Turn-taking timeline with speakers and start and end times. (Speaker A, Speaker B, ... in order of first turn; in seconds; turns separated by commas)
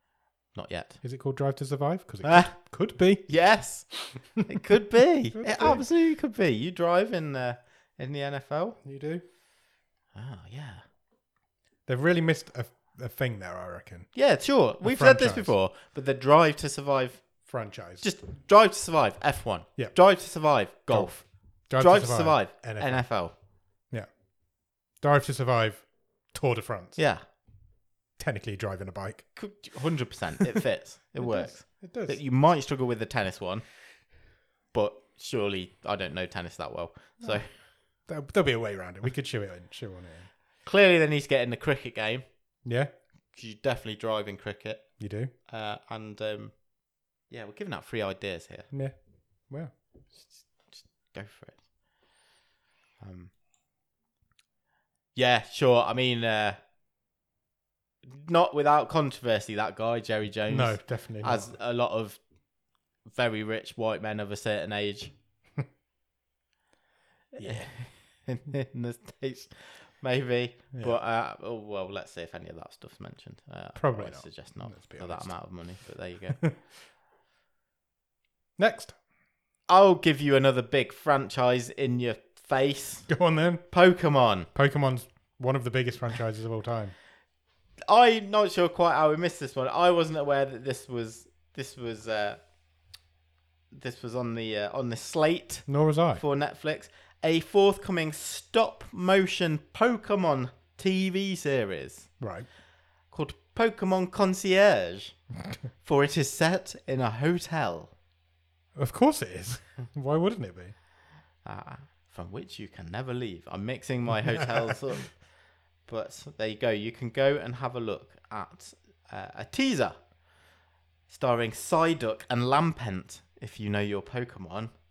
Speaker A: 0.5-1.0, Speaker B: 1.0-4.0, Speaker A: 2.2-8.8, Speaker B: 5.3-5.9, Speaker B: 8.8-9.2, Speaker A: 10.1-10.8, Speaker B: 11.9-14.2, Speaker A: 14.1-17.5, Speaker B: 14.8-15.5, Speaker B: 17.4-18.1, Speaker A: 18.0-23.4, Speaker B: 19.8-20.1, Speaker B: 20.7-23.4, Speaker B: 23.9-24.2, Speaker B: 24.9-27.0, Speaker A: 27.0-27.2, Speaker B: 28.2-29.4, Speaker A: 29.4-33.8, Speaker B: 31.2-32.2, Speaker A: 34.7-37.5, Speaker B: 37.2-40.3, Speaker A: 40.6-42.2, Speaker B: 42.6-42.9, Speaker A: 43.3-48.7, Speaker B: 45.0-45.3, Speaker B: 48.7-49.7, Speaker A: 50.1-51.7, Speaker A: 53.0-53.3, Speaker A: 55.1-56.6, Speaker A: 58.1-62.2, Speaker B: 60.5-61.5, Speaker A: 63.0-65.1, Speaker A: 67.3-76.5, Speaker B: 67.4-67.8, Speaker B: 70.7-71.0, Speaker B: 73.8-75.8, Speaker B: 78.6-79.0, Speaker A: 79.7-83.1, Speaker B: 83.1-83.7, Speaker A: 83.7-84.5, Speaker B: 84.5-87.0, Speaker A: 87.9-92.4, Speaker A: 93.7-102.1, Speaker B: 95.7-96.2, Speaker B: 102.2-102.5, Speaker A: 103.1-105.2, Speaker A: 105.8-108.0, Speaker B: 108.8-110.7, Speaker A: 111.4-115.3, Speaker B: 114.1-114.8, Speaker A: 115.8-120.0, Speaker A: 121.1-124.7